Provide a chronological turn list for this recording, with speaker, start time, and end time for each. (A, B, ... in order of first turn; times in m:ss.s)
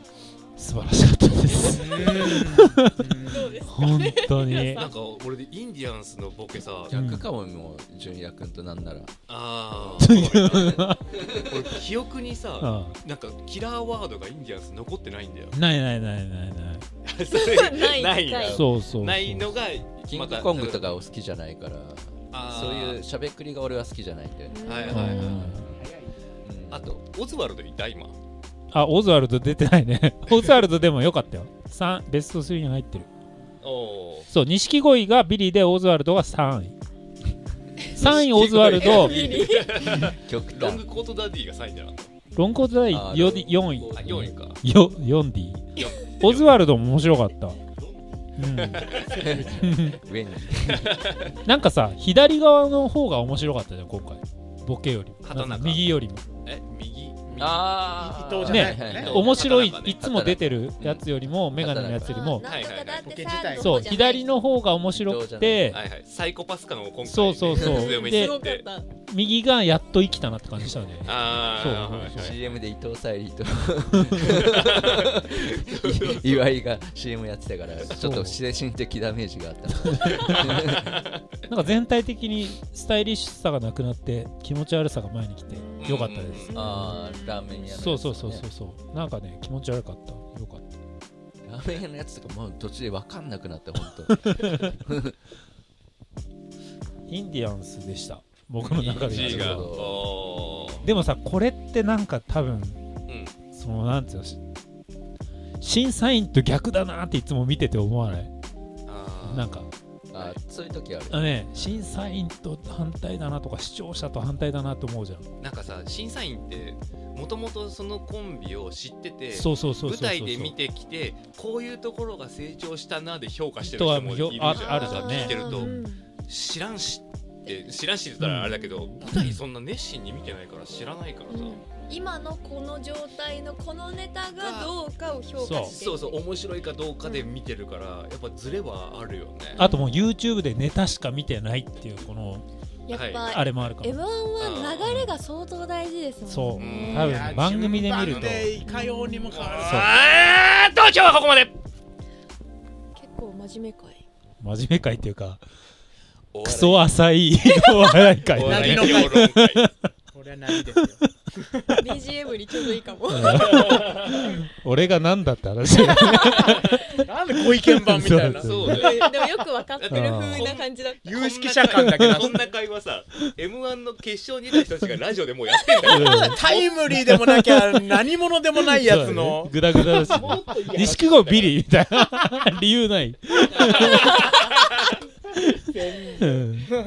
0:00.6-0:02.9 A
0:01.6-0:03.6 B
0:03.3-0:04.9 C
0:03.7-0:04.9 A
0:04.6-0:06.9 D
0:06.9-0:09.1 E
0:06.9-0:07.3 A
0:09.3-0:15.5 D
0:10.0-0:11.0 A
0:12.6-0:13.0 A
0:15.5-0:16.8 A
0:17.0-0:21.0 D
0:17.3-0:18.6 C
0:18.4-0:19.6 A
0:20.1-0:25.7 E
0:22.3-0:23.0 D
0:24.5-0:25.3 C
0:24.6-0:25.4 D
0:24.9-0:25.6 A
0:25.4-0:26.1 B
0:26.4-0:27.0 E
0:26.7-0:28.1 D
0:28.7-0:33.1 A
0:33.6-0:34.3 D
0:34.3-0:36.7 A
0:37.9-0:39.1 A
0:38.0-0:40.8 E
0:38.5-0:42.1 D
0:39.0-0:39.7 C
0:42.3-0:47.6 A
0:42.9-0:44.2 E
0:43.9-0:44.6 D
0:45.8-0:46.5 D
0:48.4-0:48.9 A
0:48.6-0:49.4 D
0:49.0-0:49.5 B
0:49.2-0:51.0 E
0:49.4-0:50.0 A
0:50.7-0:51.2 D
0:51.4-0:56.2 A
0:55.2-0:55.9 D
0:56.4-0:57.7 D
0:57.3-0:59.1 B
0:57.4-0:59.4 E
0:58.4-1:02.4 A
0:58.5-1:00.0 D
0:59.9-1:02.2 E
1:02.1-1:04.3 C
1:02.4-1:03.1 D
1:03.0-1:04.0 B
1:03.5-1:05.8 A
1:04.9-1:05.8 E
1:05.7-1:08.6 D
1:07.0-1:08.4 A
1:07.5-1:08.9 C
1:09.0-1:12.4 A
1:10.6-1:10.9 E
1:11.0-1:12.6 D
1:11.4-1:20.9 E
1:14.2-1:16.5 D
1:17.9-1:18.4 A
1:20.0-1:21.1 D
1:21.5-1:26.9 A
1:25.5-1:27.8 C
1:25.8-1:26.6 D
1:26.6-1:28.4 E
1:27.6-1:30.7 A
1:31.4-1:35.1 E
1:34.1-1:34.7 A
1:37.1-1:39.7 A
1:38.6-1:40.8 D
1:38.8-1:40.1 E
1:40.8-1:42.8 A
1:43.1-1:43.3 D
1:43.5-1:44.4 A
1:45.6-1:48.3 A
1:48.8-1:49.6 D
1:49.2-1:49.7 A
1:50.1-1:51.3 E
1:51.1-1:55.2 A
1:55.4-2:11.6 D
1:59.3-2:00.6 A
2:03.6-2:05.8 A
2:04.7-2:06.1 C
2:08.2-2:09.4 A
2:11.3-2:16.2 C
2:14.4-2:14.7 D
2:15.4-2:15.8 A
2:15.6-2:19.6 D
2:19.6-2:19.9 C
2:19.6-2:22.4 A
2:22.9-2:27.0 C
2:22.9-2:23.3 D
2:23.2-2:24.0 A
2:24.4-2:25.1 D
2:24.8-2:25.1 A
2:26.2-2:28.5 A
2:26.6-2:28.4 D
2:26.9-2:29.9 B
2:28.6-2:29.3 C
2:29.3-2:31.5 D
2:29.6-2:29.9 A
2:33.0-2:34.0 C
2:34.4-2:35.4 A
2:36.3-2:36.9 D
2:36.4-2:39.8 A
2:37.4-2:37.9 C
2:38.2-2:39.6 D
2:38.4-2:39.3 B
2:40.1-2:41.6 B
2:41.8-2:43.7 C
2:43.1-2:48.9 A
2:43.6-2:44.2 D
2:46.2-2:49.4 B
2:48.2-2:49.1 D
2:48.8-2:51.1 C
2:49.8-2:56.8 D
2:49.9-2:50.4 A
2:51.0-2:52.4 B
2:51.8-2:52.3 A
2:55.8-2:57.6 A
2:55.9-3:01.2 B
2:58.7-3:04.2 A
3:00.1-3:01.5 D
3:03.6-3:03.9 E
3:03.8-3:04.6 D
3:05.6-3:06.7 B
3:06.2-3:06.7 A